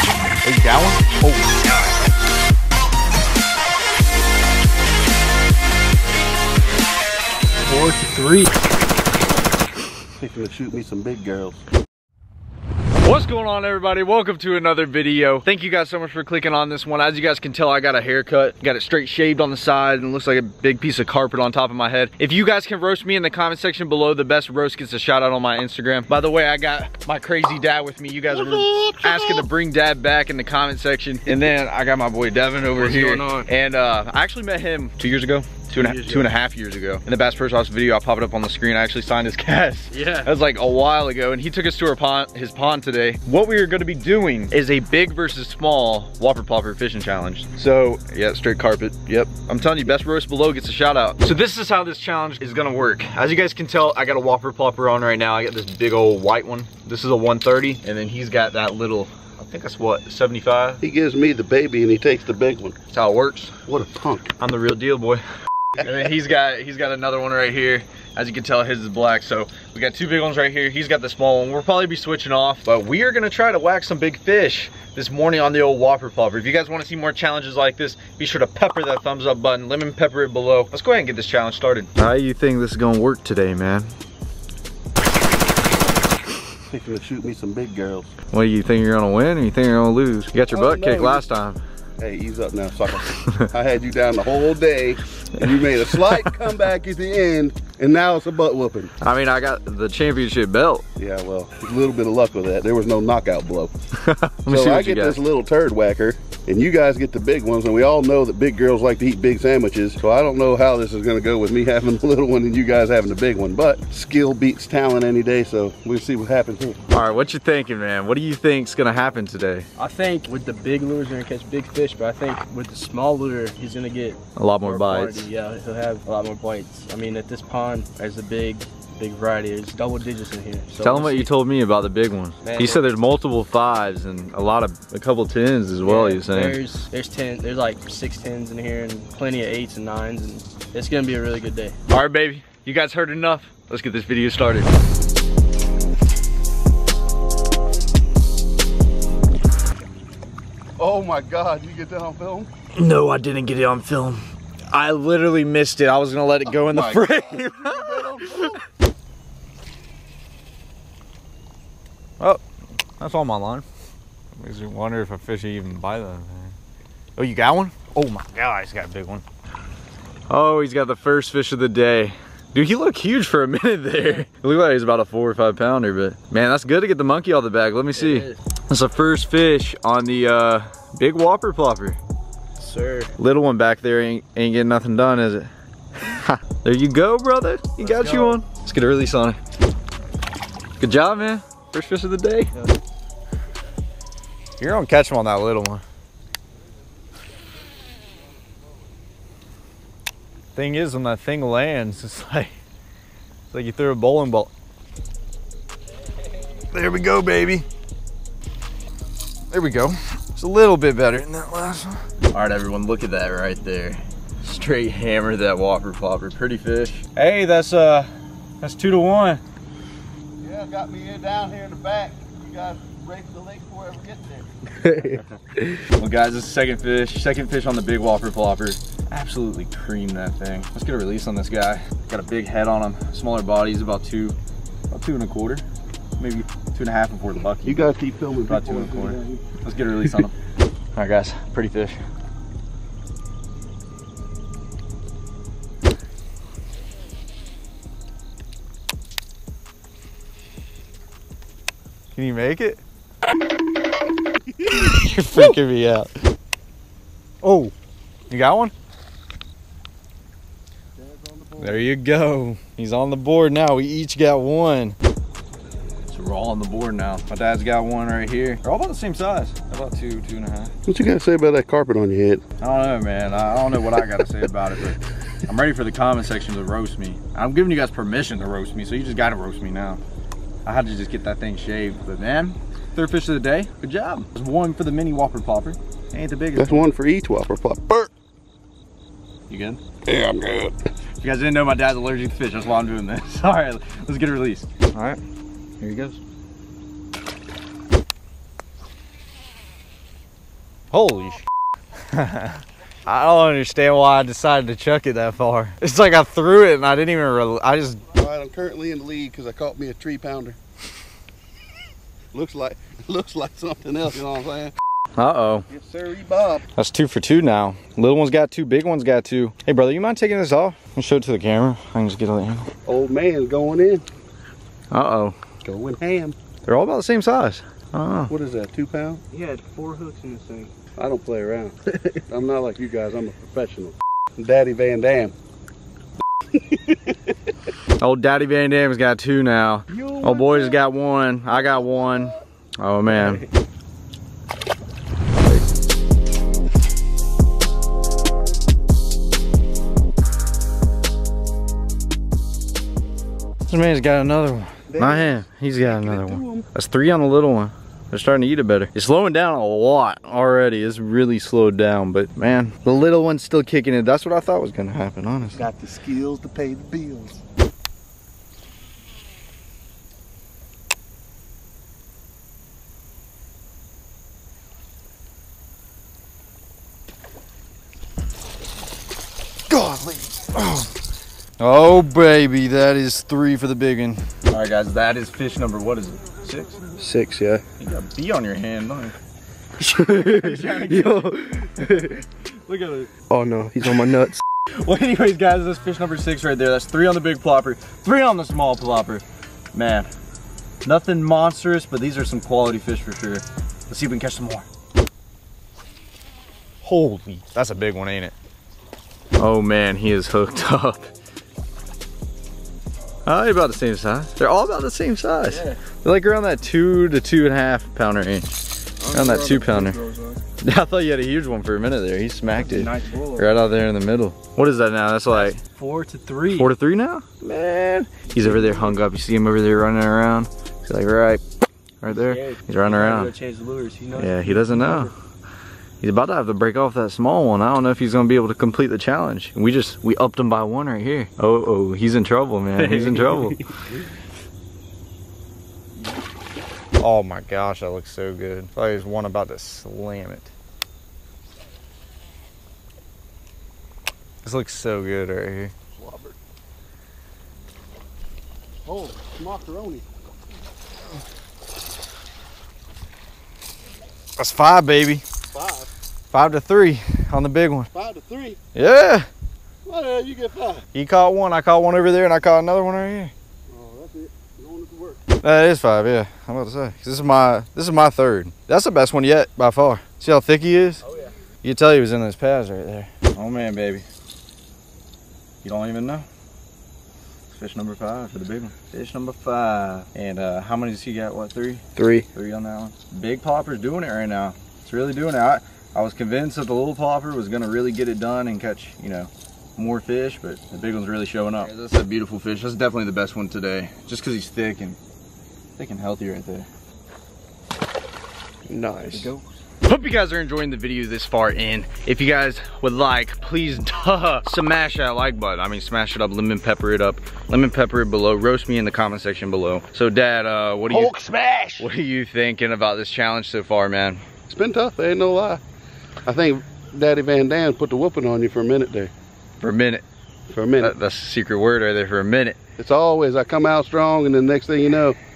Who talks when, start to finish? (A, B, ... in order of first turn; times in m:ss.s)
0:00.4-0:01.6 A
0:07.6-0:08.5 B
0:10.2-0:11.6 C
0:13.0-1:00.8 A
0:28.3-0:29.4 C
0:32.8-0:33.5 B
0:35.7-0:36.3 B
0:39.9-0:40.3 B
1:00.8-1:02.8 C
1:02.9-1:03.5 A
1:03.7-1:04.3 C
1:04.4-1:05.2 A
1:05.8-1:23.9 A
1:26.7-1:28.1 C
1:28.3-1:31.6 A
1:30.5-1:31.1 C
1:30.7-1:31.2 B
1:32.0-1:38.9 C
1:33.1-1:33.5 A
1:35.4-1:36.3 A
1:39.0-1:40.8 A
1:41.0-1:43.7 C
1:44.0-1:45.2 A
1:44.5-1:56.8 C
1:56.9-1:59.7 A
1:59.8-2:11.3 B
2:04.4-2:05.3 A
2:10.8-2:16.6 A
2:12.4-2:12.9 B
2:15.8-2:21.8 B
2:21.9-2:24.7 A
2:30.8-2:32.5 C
2:32.8-2:38.6 A
2:36.5-2:38.6 C
2:43.0-2:43.7 A
2:44.4-2:46.5 A
2:47.2-2:49.2 A
2:50.3-3:02.0 A
2:57.9-2:58.4 B
3:02.6-3:03.1 B
3:03.2-3:05.5 A
3:06.0-3:09.4 A
3:07.8-3:08.4 B
3:10.8-3:12.5 A
3:14.6-3:15.8 A
3:20.6-3:22.5 A
3:23.5-3:24.5 A
3:26.7-3:27.6 A
3:29.5-3:38.1 A
3:38.6-3:39.4 A
3:40.4-3:44.5 C
3:44.8-3:45.7 B
3:45.9-3:54.4 A
3:54.9-3:55.6 A
3:56.2-3:57.9 A
3:57.6-3:59.4 C
3:58.4-4:00.4 A
4:01.0-4:02.0 A
4:12.2-4:12.8 A
4:14.6-4:15.6 C
4:14.7-4:16.1 A
4:17.4-4:17.7 A
4:18.3-4:18.7 A
4:21.0-4:21.8 C
4:21.6-4:25.0 A
4:26.1-4:30.7 A
4:30.8-4:32.4 C
4:32.6-4:40.0 A
4:40.6-4:46.9 A
4:46.6-4:48.1 C
4:49.5-4:49.8 A
4:50.0-4:50.8 C
4:51.2-4:55.2 A
4:55.8-4:56.2 A
5:00.9-5:01.4 A
5:02.1-5:08.0 A
5:08.1-5:10.6 C
5:12.3-5:14.7 C
5:15.2-5:15.6 A
5:15.7-5:16.6 C
5:16.8-5:22.7 A
5:22.8-5:24.0 C
5:24.9-5:25.4 A
5:25.6-5:26.4 C
5:26.6-5:28.3 A
5:28.3-5:29.2 C
5:29.3-5:30.7 B
5:31.0-5:31.8 C
5:32.3-5:35.3 C
5:36.5-5:37.2 C
5:38.0-5:43.5 A
5:40.0-5:40.7 C
5:45.4-5:45.7 A
5:53.7-6:05.7 A
5:54.9-5:56.7 C
6:05.5-6:07.4 C
6:19.7-6:20.9 A
6:21.6-6:27.1 A
6:27.0-6:27.6 B
6:27.8-6:29.2 A
6:29.8-6:32.2 B
6:30.0-6:33.2 A
6:33.3-6:34.4 B
6:34.8-6:40.1 A
6:40.8-6:44.7 A
6:46.8-6:48.3 A
6:49.4-6:51.1 A
6:53.2-6:58.5 A
6:55.4-6:55.9 B
6:59.0-7:00.4 B
6:59.1-7:00.0 A
7:00.6-7:05.6 A
7:02.5-7:03.5 B
7:05.3-7:06.7 B
7:06.5-7:11.4 A
7:08.3-7:09.0 B
7:12.0-7:13.3 A
7:12.1-7:15.1 B
7:14.1-7:15.1 A
7:16.0-7:23.6 A
7:22.8-7:23.9 B
7:27.0-7:30.5 A
7:34.4-7:35.7 A
7:36.0-7:36.4 C
7:38.9-7:40.0 C
7:44.4-7:45.2 A
7:45.5-7:45.9 C
7:46.3-7:47.9 A
7:47.9-7:48.6 C
7:48.8-7:49.3 A
7:49.8-7:50.8 C
7:50.9-7:53.3 A
7:53.7-7:55.2 C
7:55.4-8:01.0 A
8:01.6-8:04.0 A
8:05.6-8:06.3 A
8:07.5-8:25.0 A
8:25.8-8:26.7 A
8:28.7-8:29.3 B
8:29.1-8:41.2 A
8:40.9-8:41.9 C
8:41.8-8:44.2 A
8:44.5-8:45.6 C
8:46.3-8:49.1 C
8:49.6-8:50.0 A
8:50.5-8:50.9 C
8:50.8-8:52.6 A
8:52.8-8:55.2 C